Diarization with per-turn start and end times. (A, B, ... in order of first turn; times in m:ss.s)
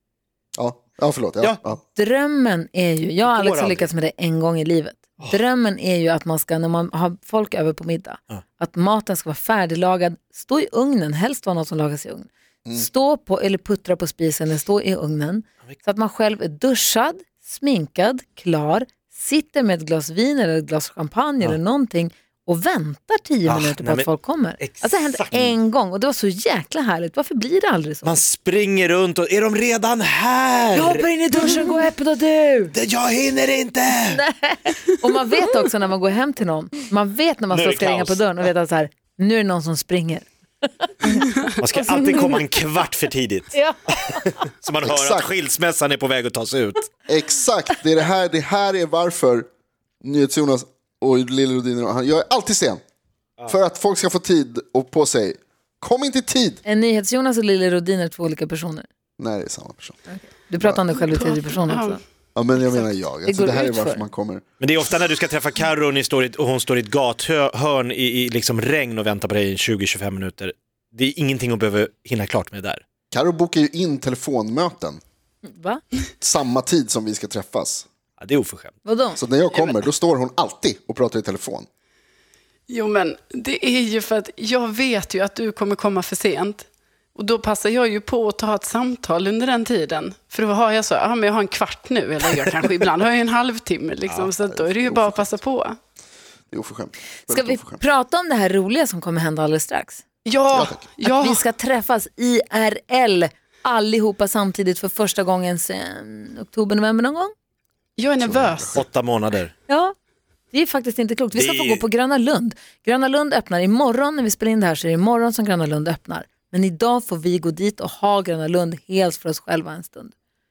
0:00.6-0:01.8 A
0:02.0-0:28.2 B
0:03.2-0:03.9 C
0:23.5-0:25.6 C
0:28.0-0:31.6 C
0:30.7-0:32.7 B
0:32.7-0:34.2 C
0:34.1-0:40.3 B
0:37.5-0:38.5 C
0:40.9-0:41.2 B
0:41.6-0:46.9 C
0:43.5-0:44.4 B
0:44.8-0:45.3 A
0:47.1-0:49.5 A
0:50.0-0:52.8 A
0:53.5-0:56.6 A
0:56.6-0:58.9 B
0:59.2-1:00.0 A
1:00.1-1:02.0 B
1:01.0-1:02.0 D
1:02.4-1:04.4 A
1:03.2-1:04.1 B
1:04.6-1:12.8 C
1:13.1-1:15.0 A
1:15.5-1:15.8 B
1:16.2-1:17.9 A
1:18.2-1:18.8 C
1:18.8-1:19.2 B
1:19.2-1:21.7 A
1:19.5-1:19.8 D
1:22.7-1:35.8 D
1:34.4-1:35.4 A
1:36.5-1:37.8 A
1:37.3-1:40.0 B
1:40.3-1:41.4 D
1:40.5-1:40.8 A
1:41.0-1:47.3 B
1:48.0-1:48.8 D
1:48.2-1:48.8 A
1:48.7-1:49.5 C
1:49.7-1:49.9 B
1:50.5-2:00.1 B
1:51.3-1:51.8 C